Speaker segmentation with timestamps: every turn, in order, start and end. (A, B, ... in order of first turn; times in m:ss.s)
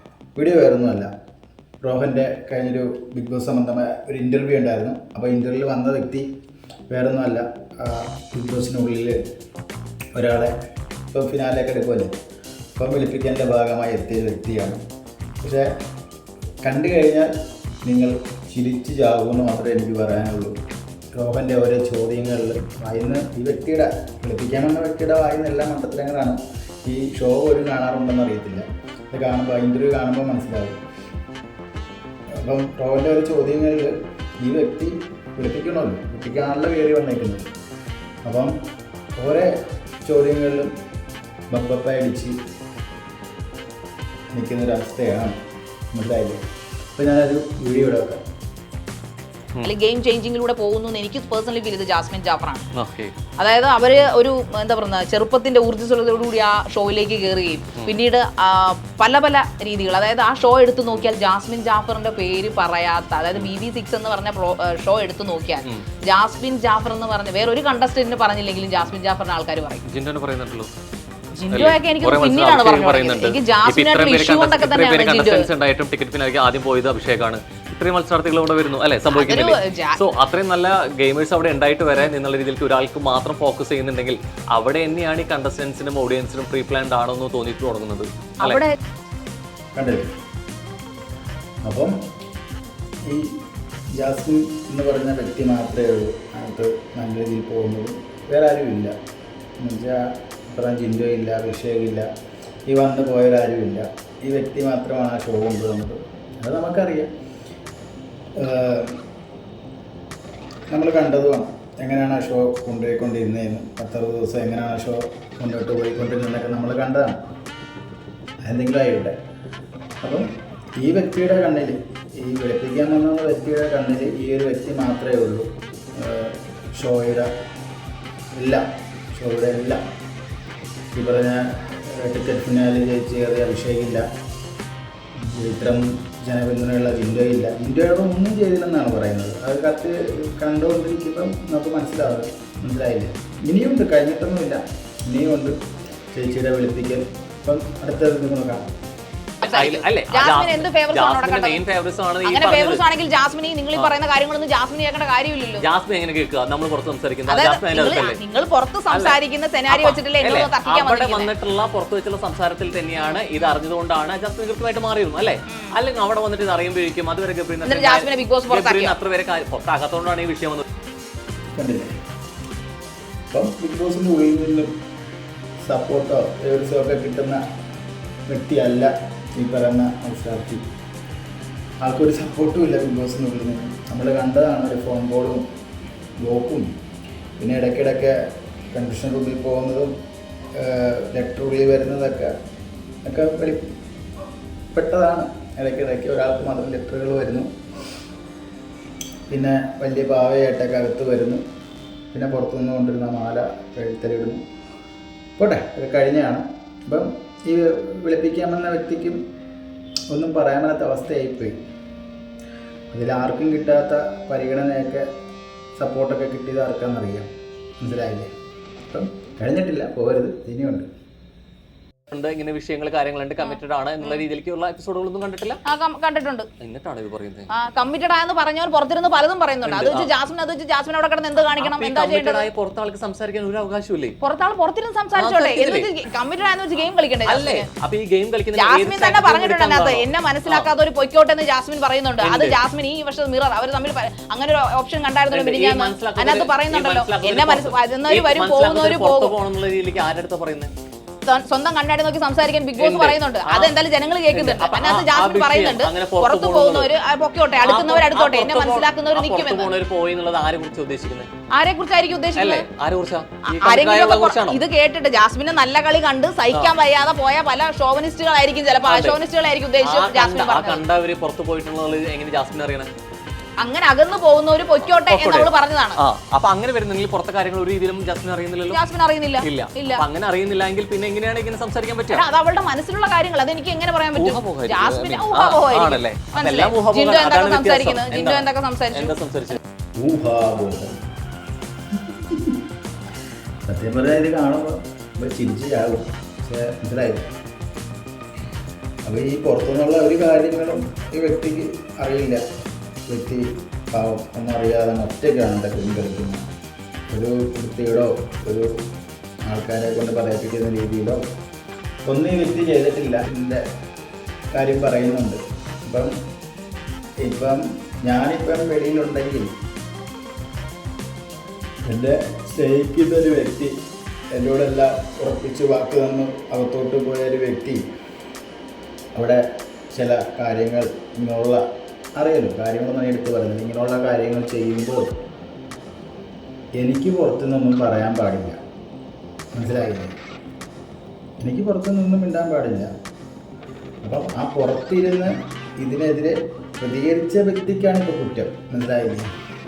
0:00.4-0:01.1 A
0:01.8-0:06.3 A
0:06.9-0:09.2 A
0:10.1-0:10.5 A
0:11.1-0:12.1 A
0:12.8-0:14.8 A
0:15.4-0:15.7 A
0:16.6-0:17.3 A
0:17.8-0:20.6 A
0:21.1-0:30.8 A
0:32.4-0:37.5 A
0:38.2-0:38.6 A
0:39.2-0:40.7 A
0:41.5-0:42.4 A
0:44.3-0:45.4 A
0:45.9-0:46.4 A
0:47.0-0:48.2 A
0:49.6-0:52.7 B
0:52.7-0:53.2 C
0:53.4-1:09.9 B
1:09.8-1:10.7 C
1:11.3-1:15.5 B
1:11.5-1:28.6 C
1:19.1-1:20.0 B
1:28.4-1:28.7 B
1:29.8-1:30.1 A
1:31.6-1:32.0 A
1:33.1-1:33.4 A
1:34.0-1:39.0 A
1:39.6-1:42.1 A
1:42.7-1:47.1 A
1:48.4-1:49.0 A
1:50.7-1:57.2 A
1:58.4-1:59.2 A
2:00.0-2:00.3 A
2:00.8-2:07.3 A
2:08.4-2:09.8 A
2:11.0-2:14.1 A
2:15.2-2:28.8 A
2:29.4-2:31.6 B
2:29.4-2:32.8 C
2:32.2-2:35.6 B
2:35.6-2:38.2 C
2:37.3-2:41.3 B
2:38.9-2:50.6 C
2:47.6-2:49.0 B
2:51.5-2:51.9 A
2:53.3-2:54.7 A
2:55.6-2:57.4 A
2:58.3-3:00.6 A
3:01.8-3:05.4 A
3:06.2-3:06.7 A
3:07.4-3:08.2 A
3:08.7-3:09.9 A
3:10.6-3:12.3 A
3:13.1-3:13.6 A
3:14.7-3:17.5 A
3:19.3-3:21.4 A
3:22.1-3:24.4 A
3:25.4-3:29.2 A
3:30.1-3:31.6 A
3:32.9-3:35.1 A
3:35.8-3:37.3 A
3:37.8-3:38.3 A
3:38.9-3:40.9 A
3:42.1-3:45.6 C
3:43.4-3:44.2 B
3:45.6-3:46.5 B
3:46.6-3:47.5 C
3:47.5-3:52.5 B
3:49.6-3:50.1 C
3:51.6-3:54.2 C
3:54.2-3:57.7 B
3:55.2-3:55.9 C
3:57.3-4:00.7 C
3:58.6-4:09.4 B
4:02.2-4:02.6 C
4:05.3-4:10.7 C
4:11.2-4:19.8 B
4:12.8-4:13.8 C
4:14.3-4:16.9 C
4:17.6-4:21.3 C
4:21.5-4:22.7 B
4:22.4-4:24.6 C
4:23.5-4:30.8 B
4:28.8-4:29.2 C
4:29.8-4:32.9 C
4:33.6-4:36.0 B
4:34.9-4:38.8 C
4:38.7-4:40.0 B
4:39.4-4:42.2 C
4:42.1-4:49.6 B
4:44.2-4:49.6 C
4:50.0-4:51.0 A
4:52.0-4:52.6 A
4:53.7-4:57.2 A
4:59.0-5:02.4 A
5:03.1-5:06.4 A
5:07.1-5:08.8 A
5:09.4-5:11.2 A
5:12.0-5:13.6 A
5:14.5-5:16.1 A
5:17.2-5:19.5 A
5:21.9-5:23.8 A
5:24.3-5:27.8 A
5:29.1-5:31.6 A
5:32.2-5:35.2 A
5:36.8-5:38.6 A
5:39.5-5:40.2 A
5:41.4-5:42.9 A
5:44.0-5:49.3 A